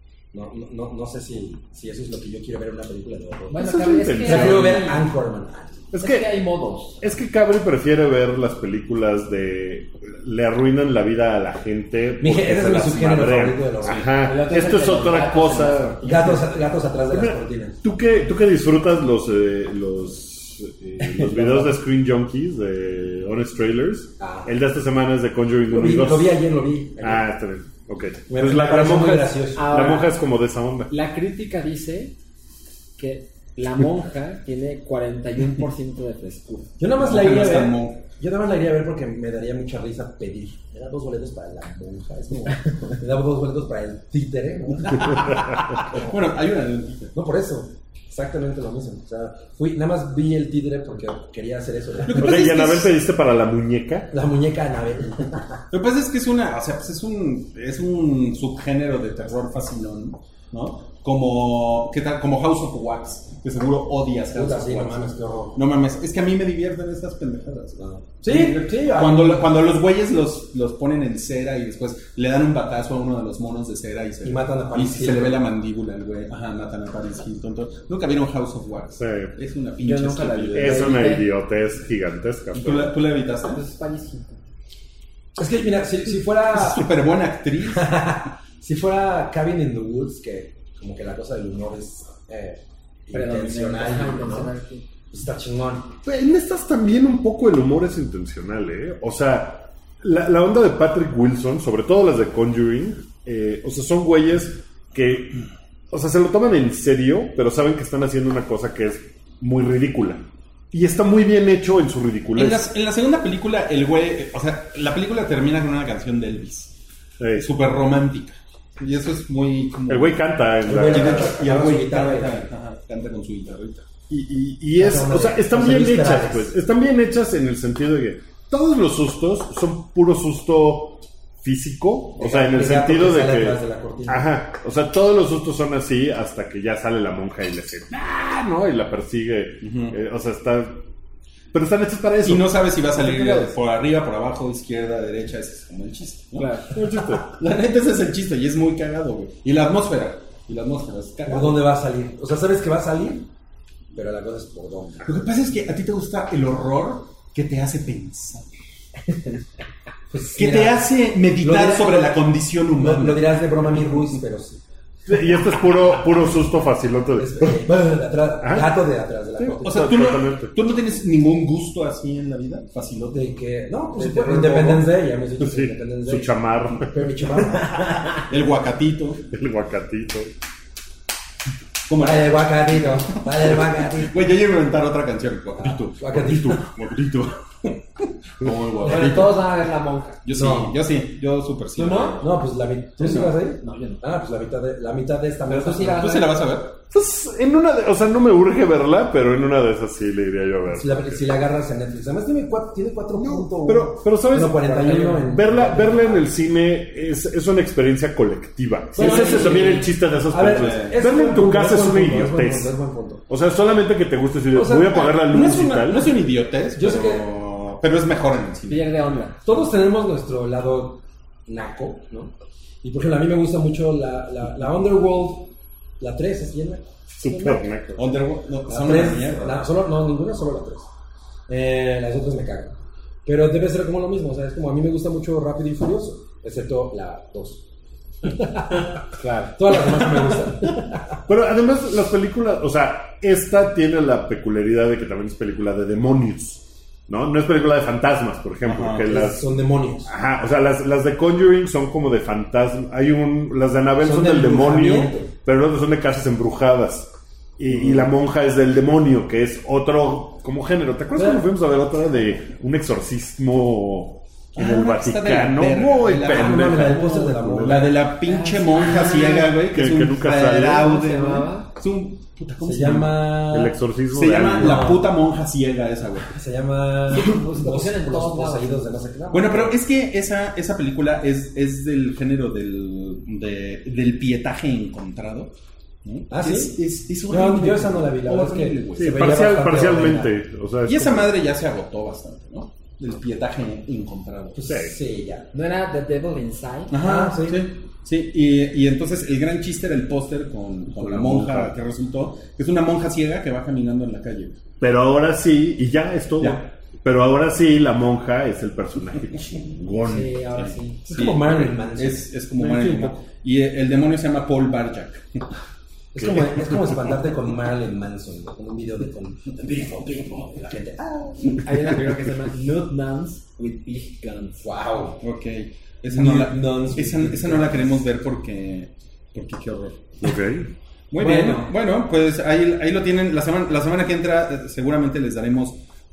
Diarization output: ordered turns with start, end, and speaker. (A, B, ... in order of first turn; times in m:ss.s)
0:00.3-0:05.9 A
0:03.5-0:05.0 B
0:03.5-0:05.0 C
0:05.9-0:06.3 C
0:05.9-0:07.0 B
0:07.0-0:16.0 C
0:12.2-0:14.1 A
0:14.1-0:16.5 B
0:16.0-0:17.8 A
0:17.1-0:26.4 C
0:21.3-0:21.6 A
0:24.2-0:24.5 A
0:25.7-0:27.3 A
0:27.0-0:30.9 C
0:28.3-0:29.8 A
0:29.5-0:30.2 B
0:30.9-0:32.2 B
0:33.0-0:36.7 B
0:36.8-0:46.1 A
0:37.0-0:38.0 D
0:44.8-0:47.1 D
0:47.1-0:52.4 A
0:52.0-0:52.9 D
0:52.1-0:54.1 C
0:54.1-0:55.6 A
0:55.7-1:05.0 D
1:04.3-1:05.6 A
1:05.5-1:21.0 D
1:07.8-1:09.6 A
1:14.2-1:15.4 A
1:19.0-1:19.3 C
1:19.8-1:21.3 B
1:20.5-1:23.0 C
1:22.5-1:23.6 D
1:23.5-1:24.4 B
1:25.3-1:26.9 A
1:26.5-1:28.0 D
1:27.7-1:34.5 A
1:33.1-1:34.8 B
1:35.1-1:35.9 A
1:36.0-1:52.6 C
1:52.3-1:56.7 D
1:57.2-1:57.5 C
1:57.4-2:00.3 D
1:59.9-2:01.3 C
2:00.6-2:02.4 A
2:00.8-2:03.9 D
2:04.1-2:20.8 C
2:04.7-2:06.5 A
2:12.2-2:14.3 A
2:19.6-2:20.0 D
2:21.5-2:22.7 C
2:22.2-2:31.6 D
2:26.3-2:26.7 B
2:26.7-2:27.3 C
2:31.3-2:33.3 A
2:33.9-2:35.1 A
2:35.0-2:38.6 D
2:40.1-2:40.9 A
2:40.3-2:43.4 D
2:41.4-2:42.1 A
2:42.8-2:44.6 A
2:45.0-2:47.7 C
2:47.1-2:49.9 A
2:48.4-2:48.8 C
2:49.4-2:50.5 C
2:49.6-2:53.2 D
2:53.1-2:58.0 A
2:54.0-2:54.8 D
2:55.4-2:57.4 C
2:58.2-2:59.2 D
2:59.3-3:00.3 C
3:01.9-3:09.4 D
3:02.0-3:04.1 A
3:05.6-3:06.6 A
3:08.8-3:10.2 B
3:08.8-3:09.2 A
3:10.2-3:12.4 D
3:10.4-3:10.7 A
3:11.8-3:12.2 B
3:12.2-3:16.0 A
3:13.0-3:13.4 D
3:13.6-3:14.0 B
3:15.5-3:16.5 B
3:15.8-3:16.8 D
3:16.9-3:21.2 C
3:20.7-3:26.3 A
3:23.2-3:32.7 C
3:29.0-3:33.2 A
3:29.0-3:29.9 B
3:30.5-3:31.0 D
3:33.3-3:36.1 C
3:34.5-3:35.2 A
3:35.0-3:39.1 D
3:36.7-3:37.2 A
3:38.7-3:39.4 B
3:39.4-3:47.6 A
3:47.2-3:48.0 C
3:48.0-3:49.6 D
3:48.7-3:50.9 A
3:51.5-3:57.6 A
3:58.2-4:01.2 A
3:59.1-3:59.6 B
4:01.3-4:09.5 C
4:08.6-4:09.1 D
4:09.0-4:10.1 A
4:10.0-4:27.9 C
4:14.0-4:15.3 A
4:17.7-4:18.1 D
4:21.2-4:21.4 B
4:24.5-4:33.4 D
4:26.1-4:27.9 A
4:28.2-4:29.5 B
4:29.7-4:30.9 C
4:30.6-4:31.7 B
4:32.6-4:33.8 A
4:33.5-4:35.0 C
4:34.1-4:36.3 D
4:34.6-4:35.1 A
4:36.3-4:39.7 A
4:37.1-4:38.9 B
4:39.3-4:45.5 D
4:46.0-4:49.5 D
4:46.3-4:46.8 A
4:47.3-4:50.3 A
4:49.0-4:51.3 C
4:50.8-4:54.6 D
4:54.5-4:55.5 A
4:54.7-4:55.0 C
4:55.5-4:57.0 B
4:56.9-5:04.6 D
4:57.0-4:57.6 A
5:01.0-5:01.7 C
5:04.8-5:10.4 C
5:10.0-5:11.0 B
5:10.5-5:15.4 D
5:11.1-5:12.3 A
5:16.1-5:21.7 A
5:16.2-5:16.7 D
5:21.5-5:24.7 B
5:24.6-5:25.2 A
5:25.2-5:30.1 D
5:26.1-5:28.0 A
5:30.2-5:30.7 C
5:31.1-5:35.8 D
5:31.2-5:31.6 B
5:31.2-5:31.7 A